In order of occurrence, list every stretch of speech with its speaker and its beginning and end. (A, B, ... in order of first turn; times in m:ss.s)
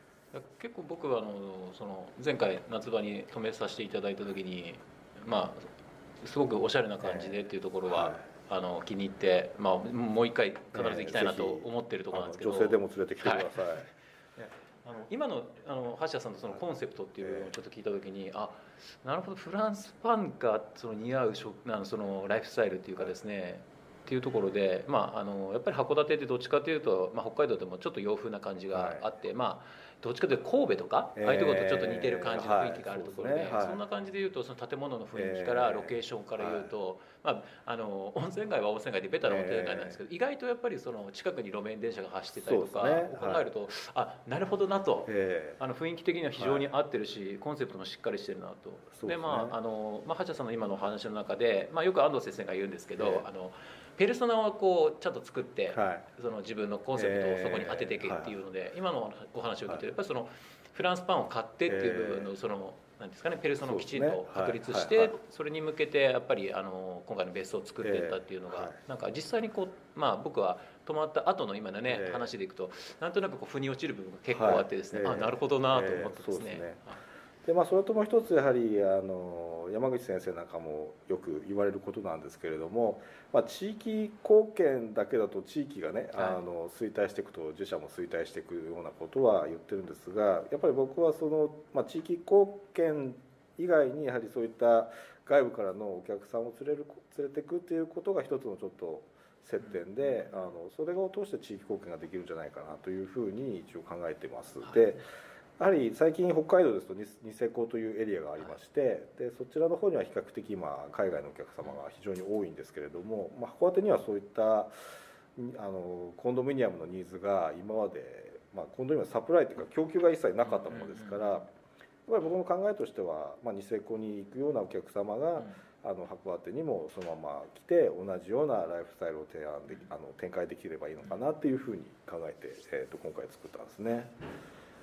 0:00.3-0:05.7 A
0:06.2-1:17.0 A
0:07.0-0:08.2 B
0:10.7-0:13.9 B
0:17.2-0:17.5 B
0:28.7-0:29.0 B
0:31.2-0:33.8 B
0:35.1-0:36.7 B
0:39.2-0:40.0 B
0:42.4-0:43.4 B
0:45.0-0:45.6 B
0:46.4-0:46.7 B
0:48.9-0:49.6 B
0:53.0-0:53.2 B
0:55.7-0:56.0 B
0:56.9-0:58.4 B
1:01.6-1:02.3 B
1:03.6-1:05.2 B
1:07.8-1:08.8 B
1:11.8-1:12.3 B
1:14.3-1:16.8 B
1:17.4-1:45.0 B
1:26.2-1:26.4 A
1:39.6-1:40.5 A
1:44.6-1:45.0 A
1:45.6-2:01.5 B
2:00.4-2:01.4 A
2:02.1-2:14.1 B